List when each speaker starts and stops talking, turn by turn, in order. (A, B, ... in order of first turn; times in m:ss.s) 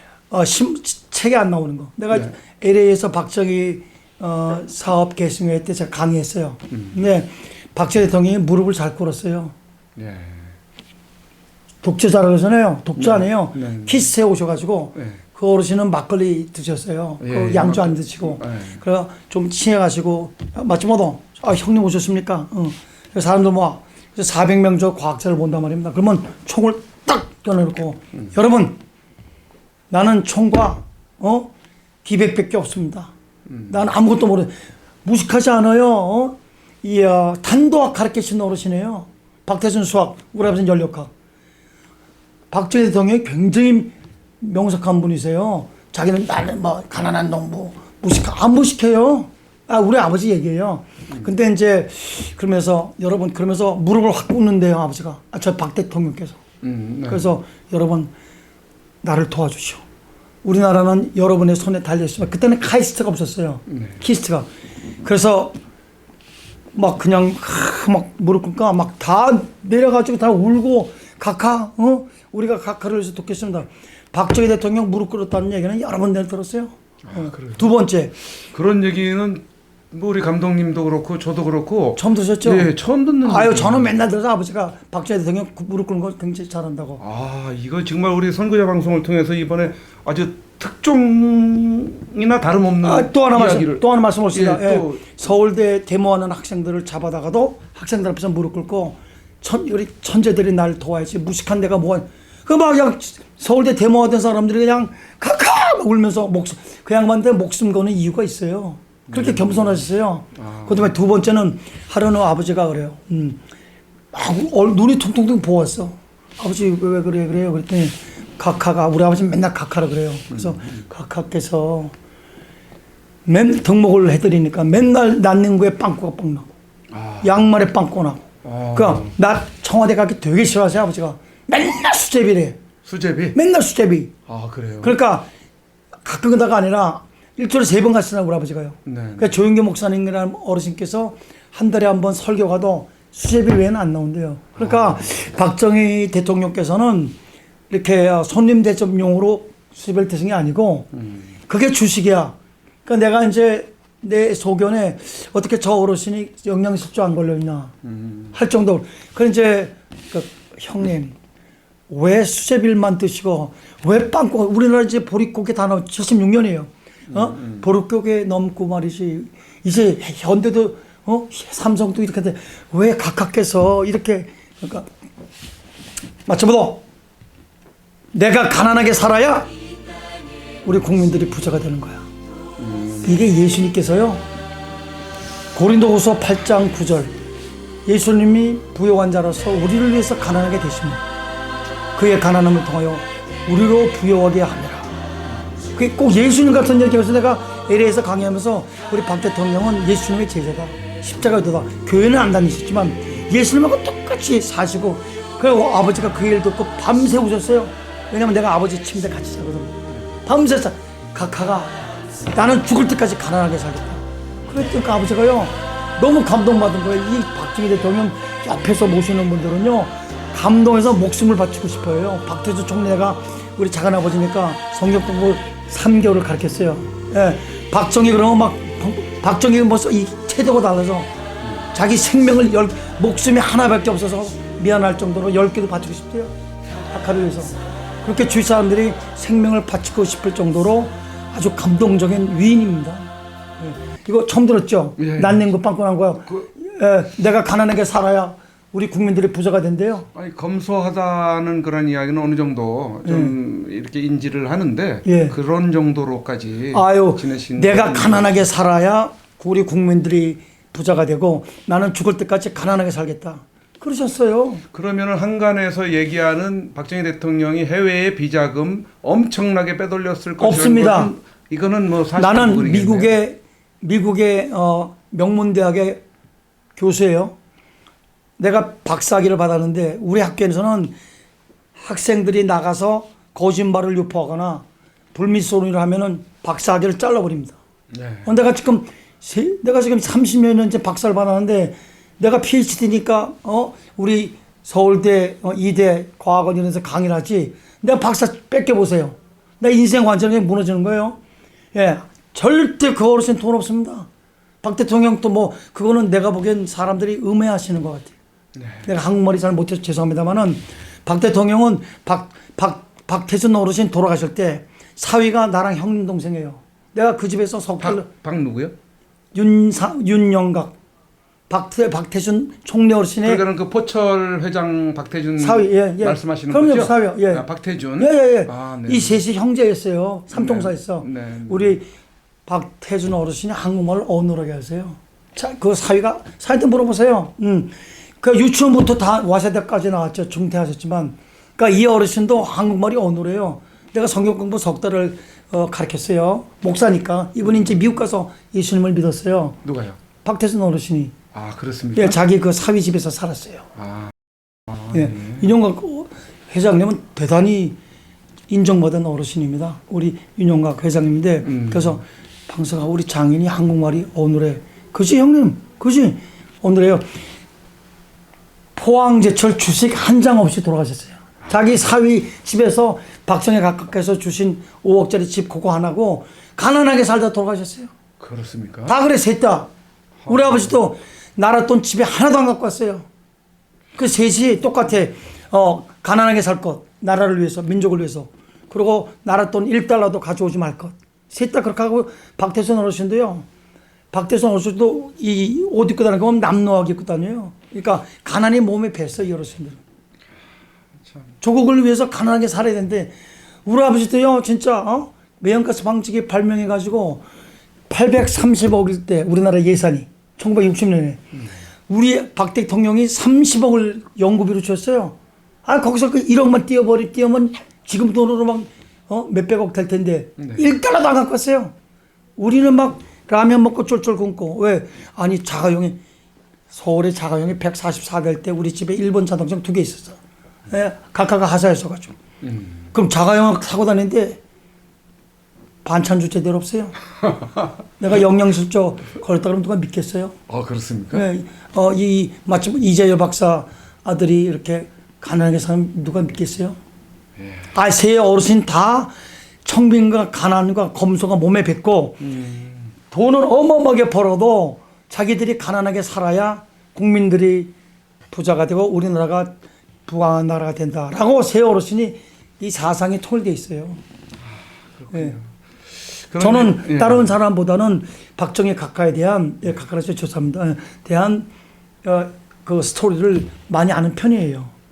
0:00.3-0:09.6 A
0:10.0-0:10.5 B
0:11.8-0:28.8 A
0:13.0-0:14.1 B
0:17.2-0:18.8 B
0:29.9-0:31.5 A
0:32.0-0:33.1 A
0:33.7-0:34.5 A
0:35.0-0:41.1 A
0:42.5-0:56.4 A
0:56.6-0:57.3 B
0:57.1-0:58.1 A
0:59.0-0:59.8 A
1:00.4-1:04.5 A
1:03.7-1:04.0 B
1:05.0-1:05.6 A
1:06.8-1:18.1 A
1:17.0-1:17.6 B
1:18.5-1:23.9 B
1:22.0-1:22.7 A
1:23.2-1:27.0 A
1:27.0-1:35.2 B
1:32.8-1:53.4 A
1:49.1-1:49.8 B
1:50.4-1:50.9 B
1:54.1-2:01.9 A
2:00.3-2:00.8 B
2:03.3-2:06.5 A
2:06.9-2:07.3 B
2:07.2-2:12.6 A
2:08.4-2:09.2 B
2:12.8-2:13.4 B
2:13.4-2:14.1 A
2:14.3-2:15.0 B
2:14.8-2:15.3 A
2:16.0-2:27.2 A
2:18.9-2:19.3 B
2:24.6-2:25.0 B
2:27.7-2:30.9 A
2:31.5-2:32.4 A
2:32.9-2:37.7 A
2:37.9-2:38.3 B
2:38.3-2:41.2 A
2:41.9-2:54.9 A
2:47.1-2:47.6 B
2:56.3-2:56.8 A
2:58.1-2:59.5 A
3:00.6-3:02.1 A
3:02.6-3:03.1 B
3:03.0-3:04.3 A
3:05.6-3:07.1 A
3:07.9-3:11.0 A
3:12.0-3:15.0 A
3:15.8-3:31.8 A
3:32.3-3:51.1 A
3:51.7-3:56.3 A
3:56.9-4:10.1 A
4:05.0-4:05.5 B
4:10.1-4:18.5 B
4:13.0-4:13.3 A
4:15.0-4:15.4 A
4:16.7-4:24.6 A
4:24.7-4:33.2 B
4:30.4-4:31.1 A
4:32.2-4:36.0 A
4:36.8-4:37.4 A
4:38.4-4:41.0 A
4:41.8-4:47.6 A
4:47.9-4:48.3 B
4:48.2-5:01.2 A
5:01.7-5:04.1 A
5:04.6-5:08.1 A
5:08.6-5:08.9 B
5:08.9-5:18.1 A
5:17.8-5:18.7 B
5:19.3-5:20.8 A
5:21.5-5:23.4 A
5:23.2-5:29.2 B
5:25.4-5:27.4 A
5:28.0-5:31.9 A
5:30.3-5:31.8 B
5:32.5-5:49.6 A
5:49.6-5:50.0 B
5:50.2-5:51.2 A
5:51.3-5:52.2 B
5:52.0-5:53.6 A
5:53.8-5:54.1 B
5:54.7-5:55.4 B
5:54.9-5:57.8 A
5:58.5-6:07.1 A
6:01.5-6:01.9 B
6:08.8-6:17.9 A
6:18.2-6:19.0 B
6:18.9-6:19.7 A
6:20.3-6:20.7 B
6:20.3-6:23.1 A
6:24.0-6:33.5 A
6:34.1-6:39.8 A
6:41.4-6:47.2 A
6:47.9-6:51.2 A
6:51.9-7:01.7 A
7:02.4-7:06.0 A
7:06.7-7:10.2 A
7:10.7-7:12.2 A
7:12.4-7:12.8 B
7:12.9-7:14.4 A
7:15.8-7:17.0 A
7:18.0-7:20.4 A
7:20.5-7:21.3 B
7:21.1-7:26.8 A
7:27.7-7:29.1 A
7:29.6-7:32.2 A
7:32.2-7:32.9 B
7:33.1-7:37.7 A
7:38.3-7:44.0 A
7:44.5-7:47.3 B
7:45.1-7:45.4 A
7:46.4-7:51.5 A
7:52.0-7:54.7 A